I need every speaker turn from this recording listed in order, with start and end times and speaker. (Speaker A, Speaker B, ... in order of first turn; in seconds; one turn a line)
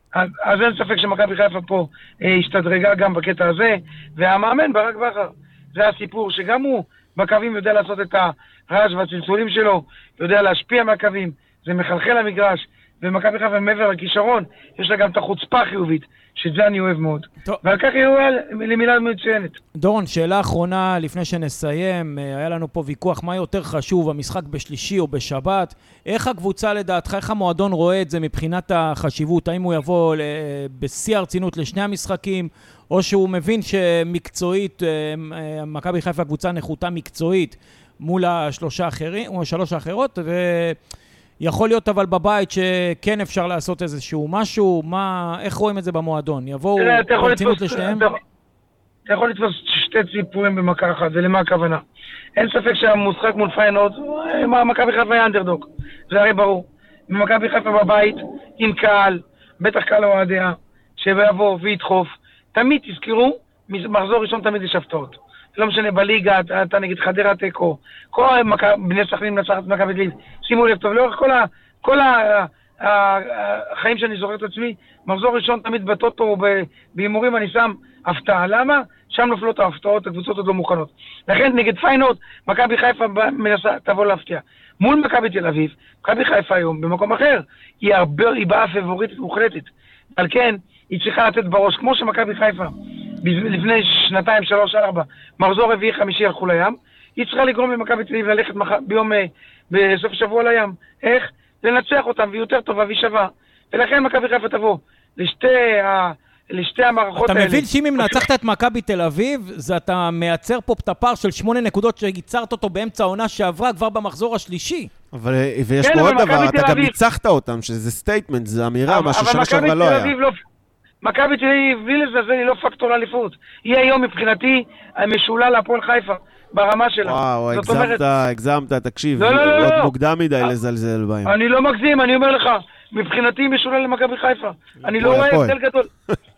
Speaker A: 0.1-19.6
Speaker B: 19.8-40.8
Speaker B: 41.4-48.0
Speaker A: 46.8-48.2
Speaker A: 49.1-51.8
Speaker A: 52.4-108.2
Speaker B: 107.2-114.9
Speaker C: 115.1-120.1
Speaker A: 115.8-117.0
Speaker A: 118.9-120.4
Speaker A: 121.0-128.0
Speaker C: 127.0-131.3
Speaker A: 129.2-129.9
Speaker A: 131.3-135.9
Speaker B: 134.8-135.2
Speaker C: 135.0-135.6